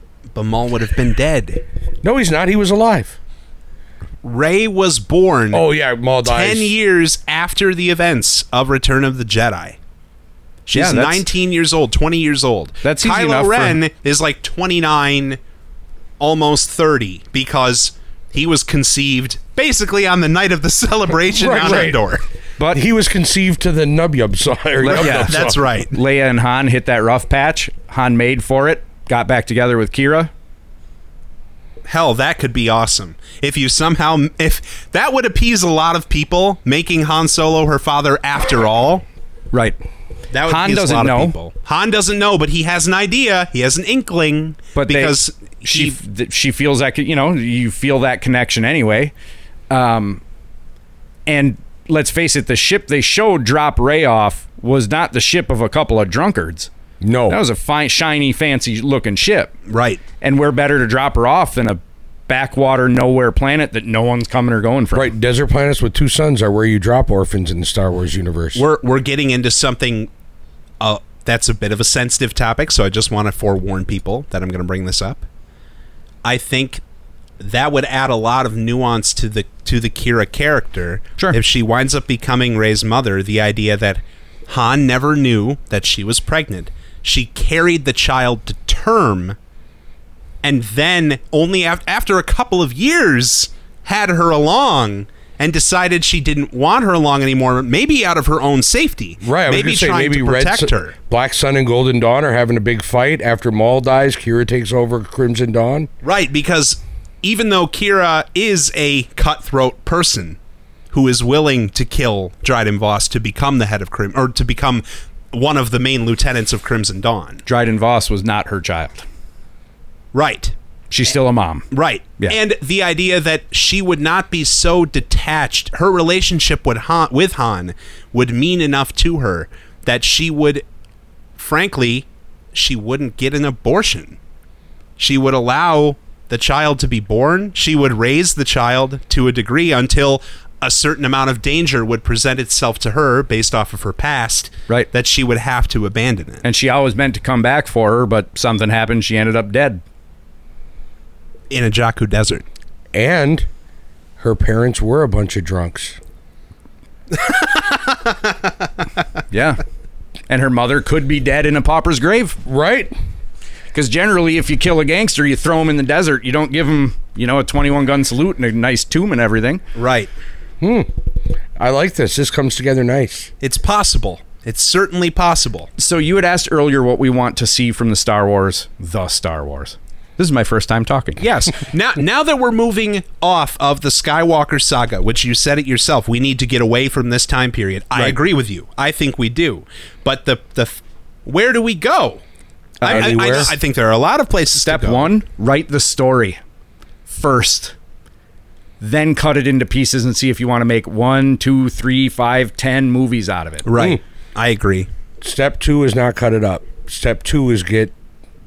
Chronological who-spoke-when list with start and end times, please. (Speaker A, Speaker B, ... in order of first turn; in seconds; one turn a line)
Speaker A: 0.3-1.6
Speaker B: 2.0-3.2
Speaker A: 4.2-5.6
Speaker B: 5.5-6.7
Speaker A: 6.2-9.8
Speaker A: 10.7-15.4
Speaker C: 10.7-11.2
Speaker C: 12.8-13.8
Speaker A: 16.2-22.2
Speaker B: 21.4-22.0
Speaker C: 22.6-22.8
Speaker B: 22.7-25.6
Speaker C: 24.8-30.3
Speaker A: 24.8-25.9
Speaker A: 31.9-39.0
Speaker C: 39.5-39.8
Speaker A: 40.3-46.0
Speaker C: 40.4-41.3
Speaker C: 44.7-49.1
Speaker C: 49.7-50.2
Speaker C: 51.3-56.7
Speaker B: 57.0-57.4
Speaker C: 57.3-59.5
Speaker A: 59.7-60.0
Speaker C: 60.2-65.1
Speaker B: 64.9-68.6
Speaker A: 68.5-70.1
Speaker A: 70.8-75.2
Speaker A: 76.2-76.8
Speaker A: 77.4-89.3
Speaker A: 90.4-100.9
Speaker B: 99.2-105.9
Speaker A: 106.0-110.4
Speaker A: 110.9-117.4
Speaker C: 117.5-119.0
Speaker A: 120.1-120.5
Speaker C: 120.9-121.7
Speaker A: 121.7-130.6
Speaker A: 131.4-134.2
Speaker A: 135.0-146.4
Speaker C: 146.4-149.8
Speaker A: 151.5-152.4
Speaker B: 152.9-153.5
Speaker B: 154.2-156.0
Speaker A: 157.1-158.3
Speaker C: 159.3-159.6
Speaker C: 160.3-162.4
Speaker B: 162.4-162.9
Speaker C: 163.7-169.6
Speaker A: 169.7-170.1
Speaker B: 170.6-170.9
Speaker B: 171.6-173.3
Speaker A: 173.4-175.7
Speaker C: 175.8-181.2
Speaker A: 181.2-192.2
Speaker C: 192.8-193.2
Speaker B: 192.8-193.5
Speaker A: 192.8-195.1
Speaker C: 194.7-196.4
Speaker C: 197.1-197.7
Speaker C: 198.8-203.7
Speaker A: 203.7-204.9
Speaker B: 205.2-207.9